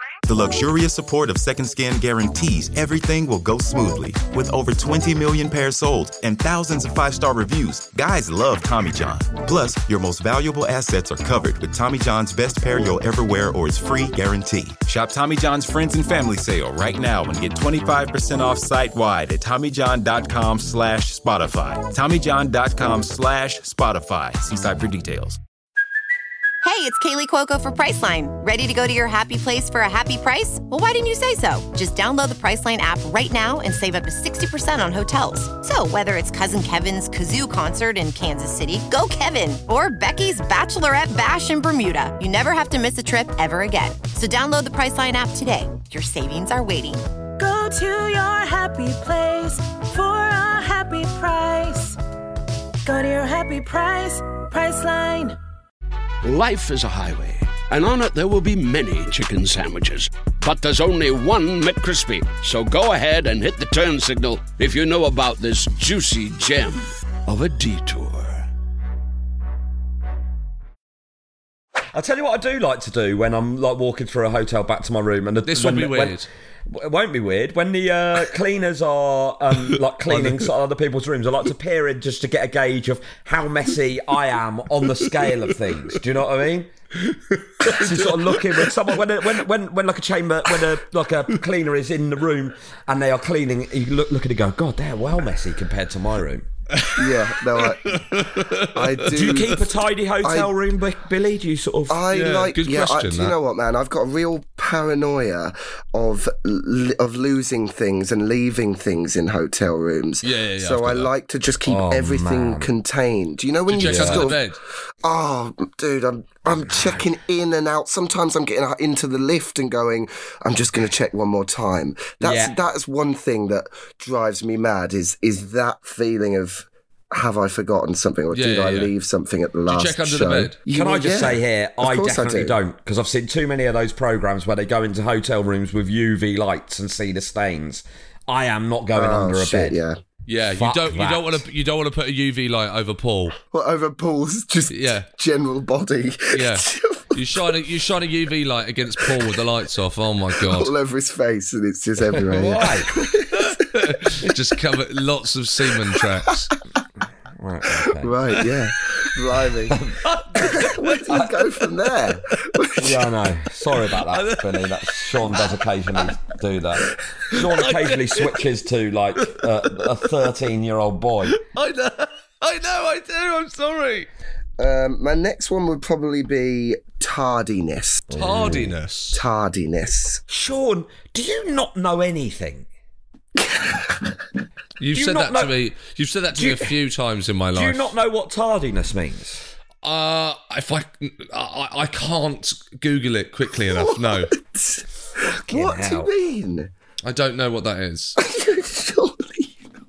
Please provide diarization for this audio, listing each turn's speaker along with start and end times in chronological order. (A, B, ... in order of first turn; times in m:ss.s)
0:00.2-0:25.4 A
0:26.6-0:47.0 B
0:47.4-0:52.0 C
0:52.8-0:55.4 C
0:56.2-1:08.5 D
1:11.9-1:26.7 E
1:15.4-1:16.3 F
1:27.1-1:28.7 F
1:27.6-1:36.4 E
1:36.8-1:39.0 F
1:37.0-1:38.0 G
1:38.7-1:39.7 G
1:39.1-1:42.0 E
1:40.2-1:40.5 G
1:41.9-1:54.5 G
1:42.1-1:43.3 F
1:50.2-1:51.1 F
1:51.7-1:52.7 E
1:53.7-1:54.6 F
1:53.8-1:54.3 E
1:55.0-2:12.6 G
1:56.4-1:57.0 E
2:02.2-2:02.6 E
2:08.3-2:08.9 F
2:09.7-2:10.6 F
2:10.7-2:19.8 E
2:18.9-2:20.0 G
2:20.3-2:23.4 F
2:20.5-2:21.4 E
2:23.5-2:27.5 G
2:24.7-2:25.1 F
2:26.3-2:30.7 F
2:30.4-2:33.5 G
2:32.3-2:32.9 E
2:33.3-2:36.5 F
2:37.4-2:38.2 E
2:38.0-2:39.8 G
2:39.7-2:40.0 E
2:40.0-2:42.4 F
2:40.4-2:43.0 G
2:42.8-2:51.4 E
2:43.8-2:46.1 F
2:47.3-2:48.5 F
2:51.3-2:54.1 F
2:54.6-2:58.1 G
2:58.1-2:58.7 E
2:58.1-2:59.2 F
2:59.1-3:00.2 G
3:00.3-3:02.6 E
3:03.4-3:04.2 G
3:04.8-3:07.9 F
3:04.9-3:05.5 E
3:06.3-3:06.7 E
3:07.5-3:09.4 E
3:09.8-3:14.3 F
3:13.7-3:16.7 G
3:15.5-3:16.1 E
3:17.0-3:18.2 F
3:18.2-3:19.6 G